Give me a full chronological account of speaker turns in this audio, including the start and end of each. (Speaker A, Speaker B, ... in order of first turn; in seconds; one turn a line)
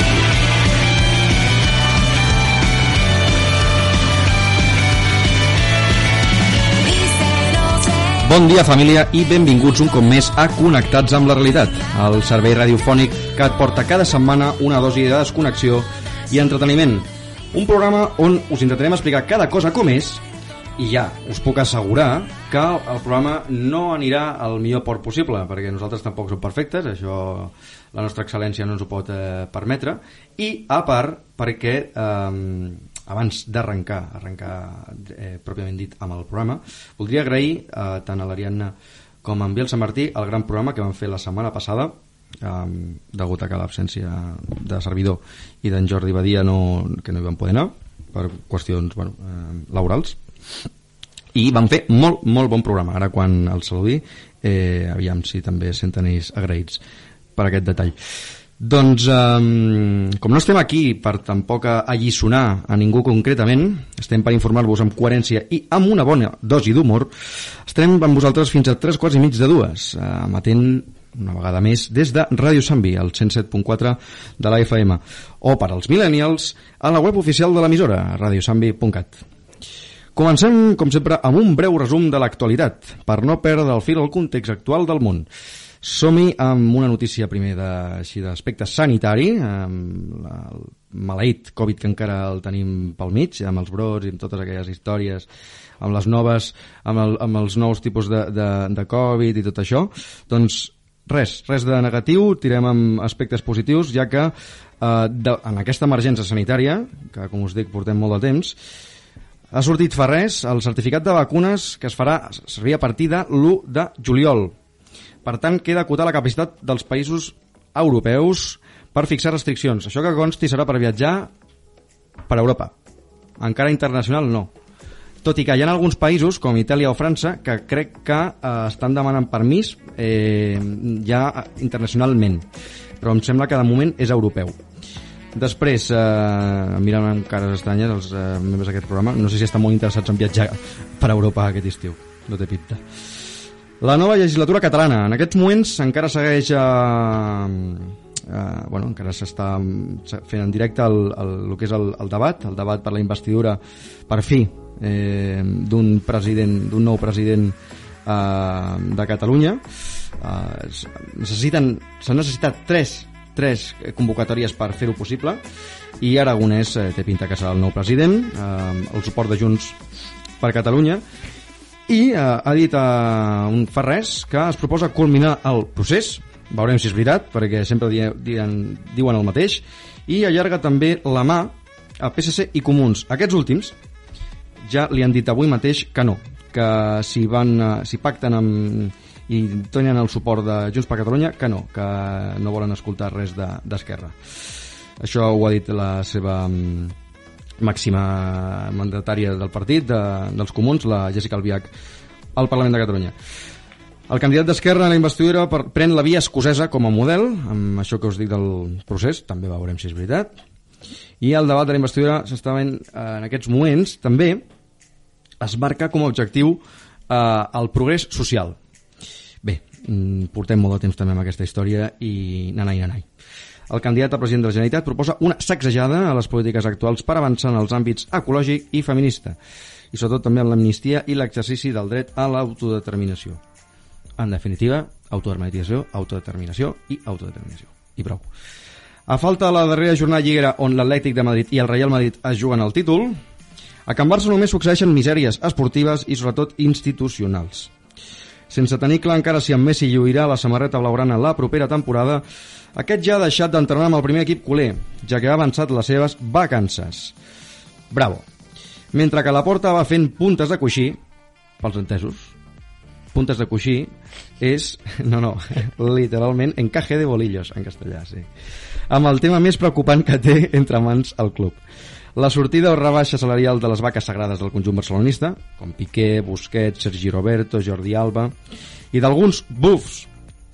Speaker A: 8.2-20.2
Speaker A: 20.8-50.2
Speaker A: 51.3-56.8
Speaker A: 57.4-58.0
Speaker A: 58.6-67.1
Speaker A: 67.7-79.2
Speaker A: 80.2-85.3
Speaker A: 85.8-95.3
Speaker A: 95.8-108.6
Speaker A: 109.5-114.5
Speaker A: 115.2-121.3
Speaker A: 122.3-122.7
Speaker A: 123.4-124.5
Speaker A: 125.2-132.4
Speaker A: 133.0-134.6
Speaker A: 135.3-142.8
Speaker A: 143.8-159.6
Speaker A: 160.2-165.4
Speaker A: 166.0-169.8
Speaker A: 170.4-171.0
Speaker A: 171.9-183.8
Speaker A: 184.6-194.2
Speaker A: 195.0-196.9
Speaker A: 197.6-201.7
Speaker A: 202.3-203.1
Speaker A: 204.1-210.3
Speaker A: 211.2-214.4
Speaker A: 215.4-218.6
Speaker A: 219.4-223.1
Speaker A: 223.7-229.4
Speaker A: 229.9-233.4
Speaker A: 234.2-238.2
Speaker A: 239.1-243.2
Speaker A: 243.9-247.7
Speaker A: 248.5-252.2
Speaker A: 252.8-257.1
Speaker A: 257.9-258.2
Speaker A: 258.9-261.0
Speaker A: 261.6-262.3
Speaker A: 263.1-268.3
Speaker A: 268.9-271.6
Speaker A: 272.1-278.3
Speaker A: 278.9-280.1